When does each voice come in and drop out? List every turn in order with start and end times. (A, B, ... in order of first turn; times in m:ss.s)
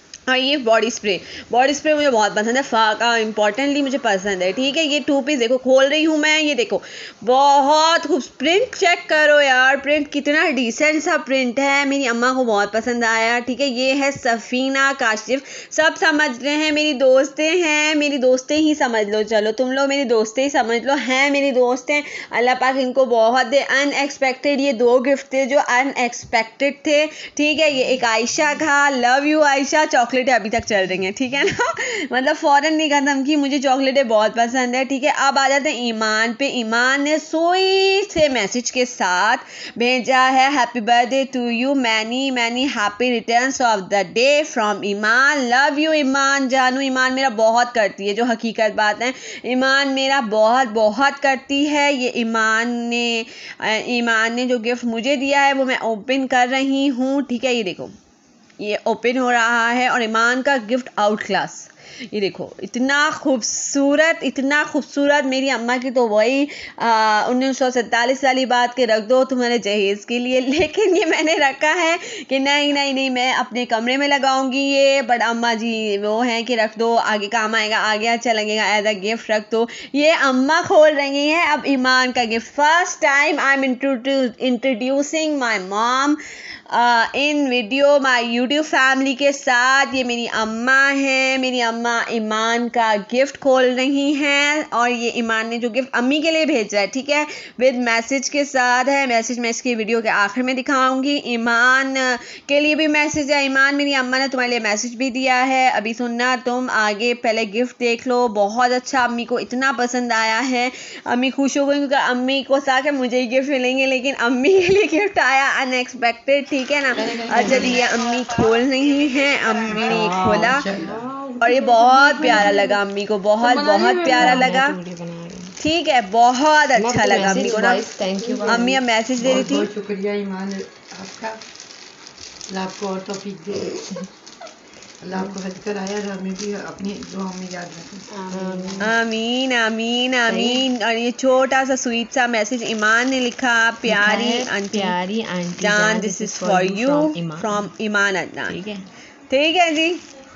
0:00.3-0:58.0 A
0:58.6-1:26.2 A
1:26.7-2:00.6 A
1:57.0-1:57.8 B
1:57.4-1:57.8 C
1:59.7-2:01.0 B
2:00.7-2:02.7 C
2:01.4-2:04.8 A
2:03.4-2:05.6 C
2:05.6-2:07.9 A
2:06.8-2:08.8 C
2:08.1-2:11.4 B
2:08.4-2:09.7 A
2:12.5-2:13.9 B
2:15.0-2:18.7 B
2:18.1-2:18.9 C
2:18.8-2:25.0 A
2:20.3-2:20.6 C
2:23.8-2:27.7 C
2:25.6-2:28.6 A
2:28.5-2:28.8 C
2:29.3-2:30.0 A